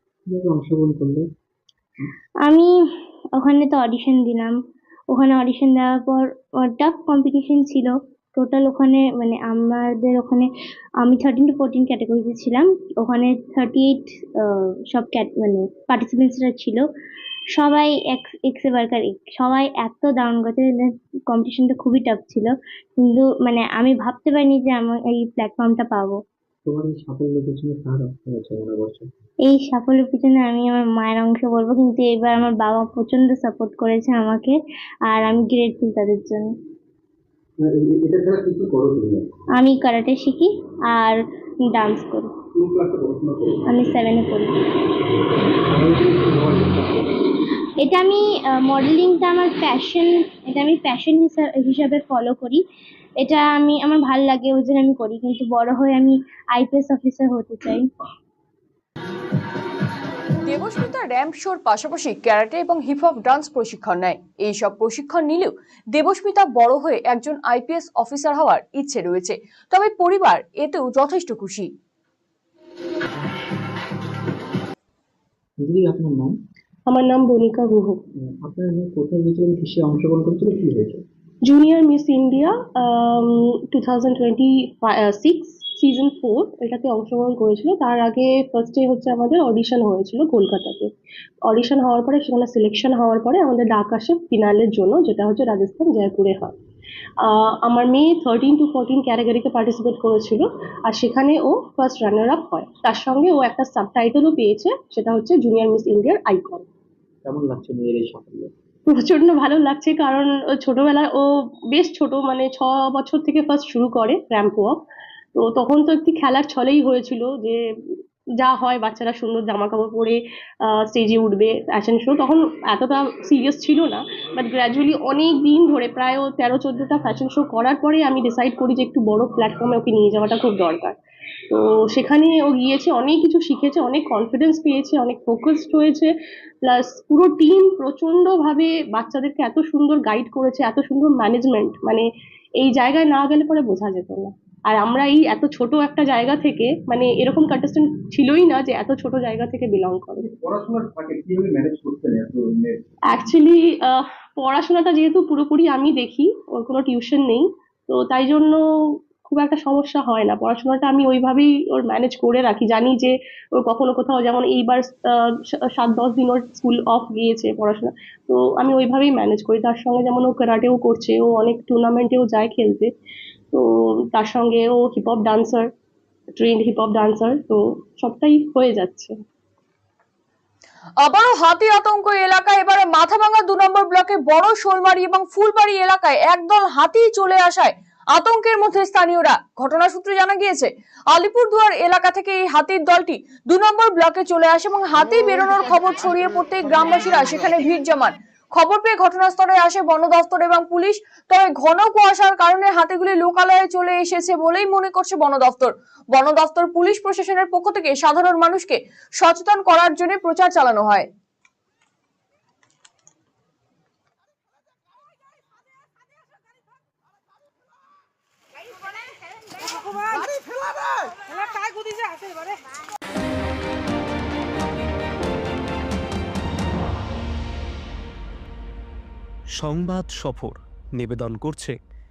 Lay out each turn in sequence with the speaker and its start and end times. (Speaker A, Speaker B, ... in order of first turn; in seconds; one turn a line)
Speaker A: 0.3-1.3
Speaker B: 3.4-4.5
Speaker B: 5.1-10.4
Speaker B: 11.0-16.8
Speaker B: 17.6-22.5
Speaker B: 23.0-26.1
Speaker A: 26.6-29.1
Speaker B: 29.5-34.5
Speaker B: 35.1-36.5
Speaker A: 37.6-39.3
Speaker B: 39.6-41.2
Speaker B: 41.7-42.3
Speaker A: 42.6-43.8
Speaker B: 43.7-44.5
Speaker A: 45.7-46.8
Speaker B: 47.8-52.6
Speaker B: 53.2-57.9
Speaker C: 60.4-71.7
Speaker A: 75.6-76.3
Speaker D: 76.9-78.0
Speaker A: 78.3-81.0
Speaker D: 81.4-90.9
Speaker D: 91.4-96.5
Speaker D: 97.2-106.7
Speaker A: 107.2-108.5
Speaker D: 108.9-114.8
Speaker D: 115.3-117.6
Speaker D: 118.4-130.9
Speaker D: 131.5-136.1
Speaker D: 136.6-142.0
Speaker D: 142.6-150.3
Speaker A: 150.4-152.8
Speaker D: 153.1-158.6
Speaker D: 159.2-172.9
Speaker D: 173.5-175.7
Speaker D: 176.3-179.1
Speaker C: 181.0-211.1
Speaker E: 229.5-231.8